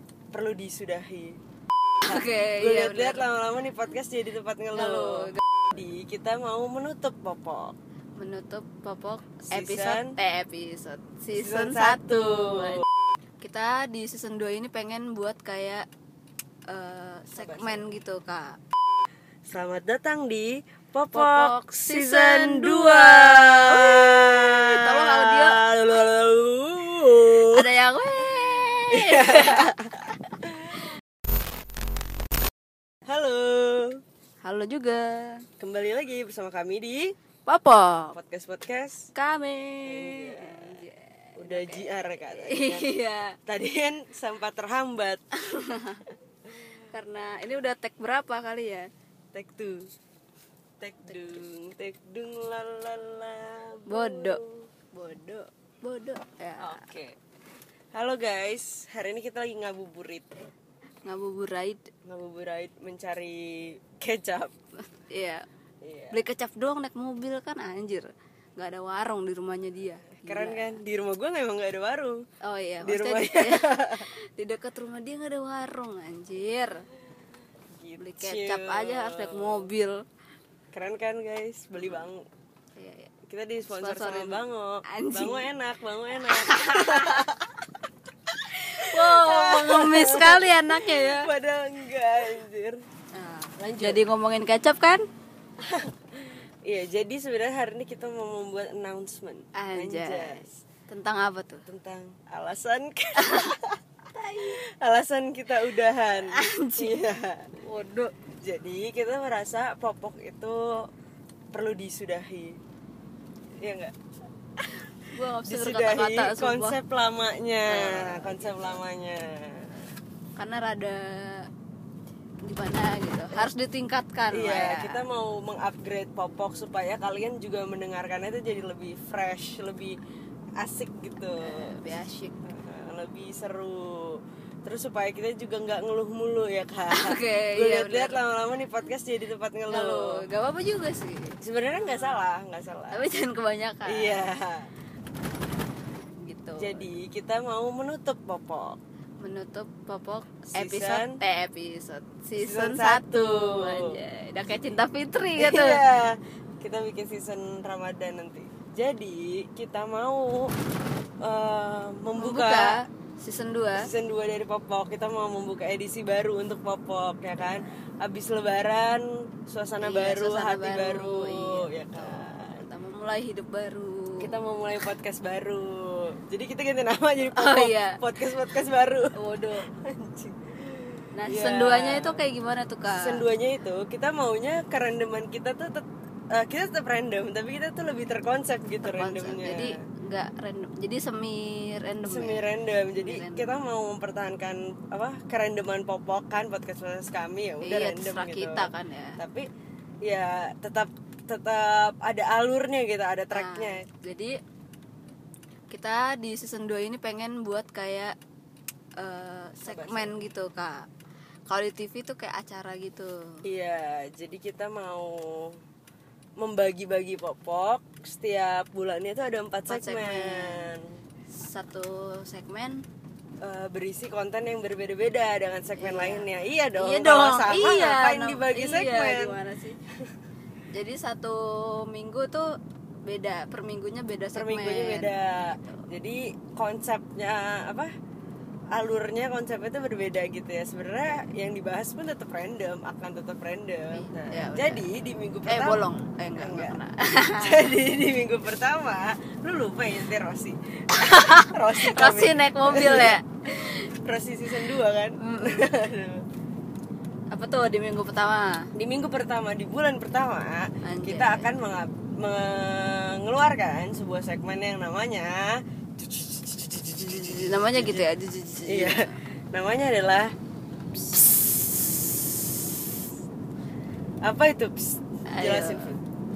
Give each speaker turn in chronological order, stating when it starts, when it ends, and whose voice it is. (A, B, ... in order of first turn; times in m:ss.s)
0:00.3-0:01.4 A
0:02.0-0:03.2 B
0:02.1-0:07.7 A
0:04.7-0:05.7 B
0:08.2-0:12.8 B
0:09.5-0:10.1 A
0:11.3-0:12.8 A
0:13.4-0:15.8 B
0:16.7-0:18.6 B
0:17.3-0:17.9 A
0:19.5-0:27.6 A
0:21.1-0:25.6 B
0:27.3-0:29.7 B
0:28.9-0:30.8 A
0:33.1-0:34.0 A
0:34.4-0:35.4 B
0:35.6-0:37.1 A
0:37.4-0:38.2 B
0:38.1-0:39.1 A
0:39.1-0:43.4 B
0:39.8-0:40.8 A
0:41.4-0:42.9 A
0:43.5-0:45.2 A
0:45.3-0:46.0 B
0:46.9-0:48.9 B
0:49.3-0:49.9 A
0:50.8-0:54.7 A
0:51.1-0:51.4 B
0:53.9-0:54.4 B
0:54.9-0:56.8 B
0:56.6-0:57.1 A
0:57.9-1:00.4 A
1:01.0-1:01.9 B
1:02.0-1:04.5 A
1:05.0-1:05.4 B
1:05.8-1:06.2 A
1:06.1-1:10.8 B
1:10.2-1:12.2 A
1:12.4-1:16.8 B
1:12.8-1:14.0 A
1:17.7-1:19.6 A
1:18.0-1:20.0 B
1:20.7-1:22.2 A
1:22.8-1:23.1 B
1:23.3-1:27.6 A
1:23.7-1:25.4 B
1:26.2-1:27.2 B
1:28.7-1:31.3 B
1:28.8-1:32.8 A
1:33.1-1:35.0 B
1:33.6-1:34.0 A
1:35.6-1:35.9 A
1:36.6-1:40.6 A
1:39.5-1:41.6 B
1:41.6-1:43.8 A
1:43.2-1:43.6 B
1:44.1-1:44.6 B
1:44.4-1:47.5 A
1:46.3-1:47.0 B
1:47.6-1:48.1 B
1:48.4-1:50.9 A
1:51.5-1:52.6 A
1:53.6-1:53.9 A
1:54.6-1:59.8 A
1:55.1-1:56.8 B
1:57.7-1:58.8 B
2:00.4-2:01.5 B
2:02.4-2:05.0 B
2:04.3-2:10.0 A
2:10.6-2:11.8 A
2:11.4-2:12.4 B
2:12.4-2:20.2 A
2:16.9-2:18.2 B
2:19.7-2:22.2 B
2:21.4-2:23.0 A
2:22.9-2:24.3 B
2:23.8-2:24.7 A
2:26.2-2:26.9 B
2:26.6-2:28.8 A
2:29.2-2:35.8 B
2:30.5-2:31.2 A
2:32.4-2:34.0 A
2:35.4-2:40.5 A
2:41.2-2:42.8 A
2:42.2-2:43.9 B
2:43.8-2:52.6 A
2:47.4-2:47.6 B
2:49.8-2:54.3 B
2:54.2-2:59.2 A
2:57.2-2:58.6 B
2:59.1-2:59.7 B
2:59.7-3:02.2 A
3:01.1-3:03.2 B
3:02.9-3:09.8 A
3:08.8-3:13.6 B
3:12.0-3:19.4 A
3:17.6-3:19.2 B
3:20.0-3:23.8 A
3:23.3-3:24.4 B
3:25.7-3:28.1 B
3:29.0-3:30.9 B
3:29.6-3:30.2 A
3:31.5-3:33.4 B
3:33.4-3:35.6 A
3:36.4-3:41.0 A
3:39.7-3:40.7 B
3:41.3-3:42.8 B
3:43.4-3:49.4 A
3:45.8-3:49.8 B
3:50.7-3:52.5 B
3:53.0-3:55.7 B
3:54.3-3:57.9 A
3:58.7-4:05.8 A
4:03.9-4:04.9 B
4:05.5-4:07.7 B
4:06.4-4:06.8 A
4:07.4-4:16.2 A
4:10.9-4:13.9 B
4:14.6-4:15.7 B
4:17.3-4:18.7 B
4:18.7-4:28.1 A
4:20.8-4:21.5 B
4:27.0-4:29.2 B
4:28.6-4:30.3 A
4:31.1-4:31.6 B
4:34.2-4:36.0 A
4:35.3-4:35.9 B